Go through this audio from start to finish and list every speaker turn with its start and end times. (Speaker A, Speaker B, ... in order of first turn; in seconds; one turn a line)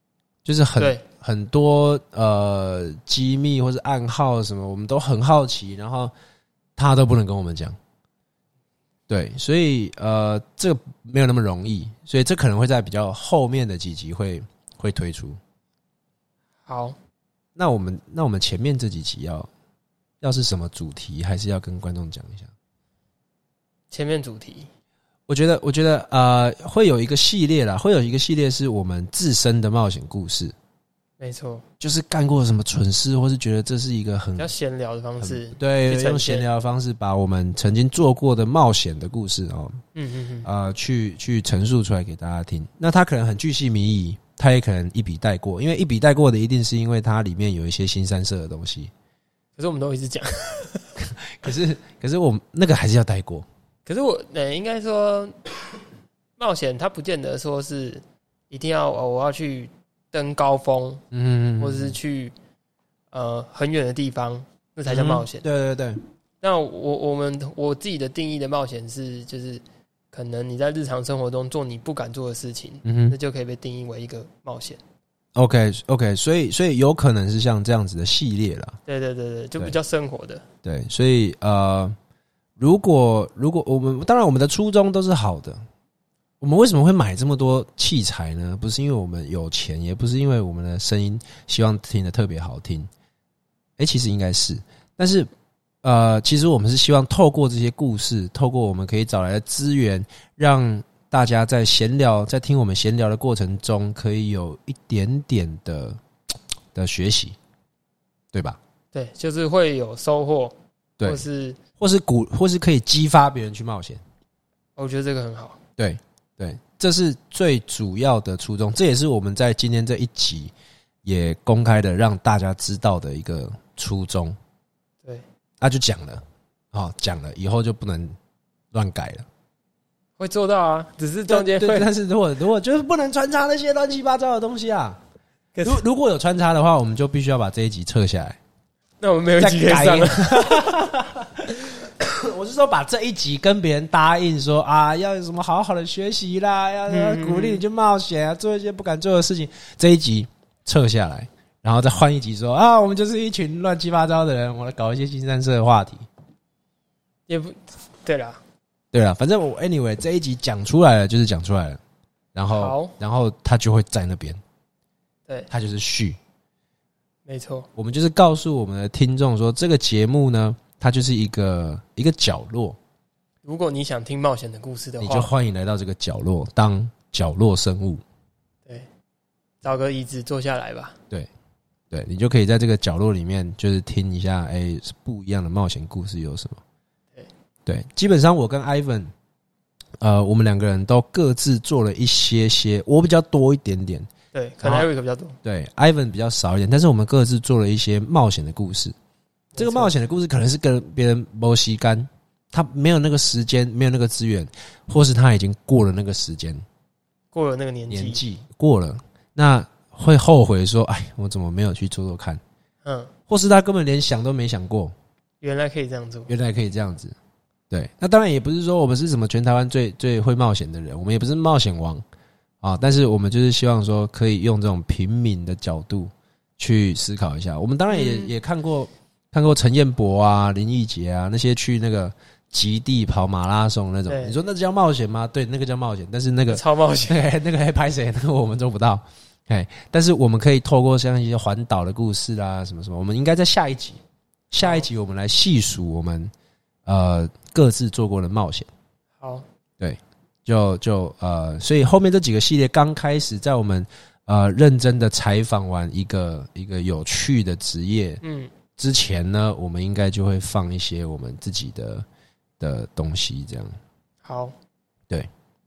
Speaker A: 0.4-6.1
Speaker B: 0.8-1.0
Speaker A: 6.8-7.8
Speaker A: 9.1-15.4
Speaker B: 16.7-17.0
Speaker A: 17.6-19.5
Speaker A: 20.2-22.5
Speaker B: 23.9-24.7
Speaker A: 25.3-30.5
Speaker B: 31.2-31.6
Speaker A: 31.8-34.5
Speaker B: 34.4-36.5
Speaker A: 35.2-39.8
Speaker B: 39.9-40.5
Speaker A: 40.4-48.9
Speaker B: 49.6-50.9
Speaker A: 51.0-53.5
Speaker B: 53.9-55.5
Speaker B: 56.4-61.0
Speaker A: 61.1-62.0
Speaker B: 61.6-62.3
Speaker B: 63.1-65.4
Speaker A: 64.9-66.0
Speaker B: 66.4-74.8
Speaker A: 72.8-73.2
Speaker A: 75.3-78.8
Speaker B: 78.8-80.4
Speaker A: 80.6-82.0
Speaker A: 82.6-85.6
Speaker A: 86.4-92.9
Speaker A: 93.8-95.3
Speaker A: 95.8-106.0
Speaker A: 106.7-107.4
Speaker A: 108.3-108.6
Speaker B: 108.9-111.6
Speaker A: 111.8-114.0
Speaker B: 114.8-115.6
Speaker A: 115.8-120.5
Speaker A: 121.0-124.3
Speaker A: 125.6-128.2
Speaker A: 128.7-129.3
Speaker B: 130.2-131.9
Speaker A: 131.3-135.0
Speaker B: 135.6-135.8
Speaker A: 135.6-138.4
Speaker B: 139.0-140.7
Speaker A: 139.4-156.0
Speaker B: 146.9-147.6
Speaker B: 157.3-158.4
Speaker A: 158.9-161.8
Speaker A: 162.3-164.4
Speaker B: 162.5-162.9
Speaker A: 165.5-166.2
Speaker B: 167.3-167.7
Speaker A: 167.8-172.8
Speaker B: 173.4-175.3
Speaker A: 175.0-178.0
Speaker B: 179.6-181.0
Speaker A: 181.9-186.6
Speaker A: 187.7-189.1
Speaker A: 190.0-194.1
Speaker B: 194.3-195.4
Speaker A: 194.6-194.9
Speaker A: 195.4-198.9
Speaker B: 199.5-199.9
Speaker A: 199.6-206.6
Speaker B: 207.3-208.2
Speaker A: 207.9-212.4
Speaker B: 212.8-213.1
Speaker A: 213.3-214.9
Speaker B: 215.4-216.3
Speaker A: 216.3-217.2
Speaker A: 217.7-222.0
Speaker A: 222.6-246.3
Speaker B: 227.9-228.3
Speaker B: 234.1-234.4
Speaker B: 236.5-237.2
Speaker B: 244.6-244.9
Speaker A: 246.8-248.7
Speaker B: 249.2-249.4
Speaker A: 249.8-258.2
Speaker B: 258.2-258.5
Speaker A: 258.8-262.1
Speaker A: 262.6-263.8
Speaker B: 264.2-264.6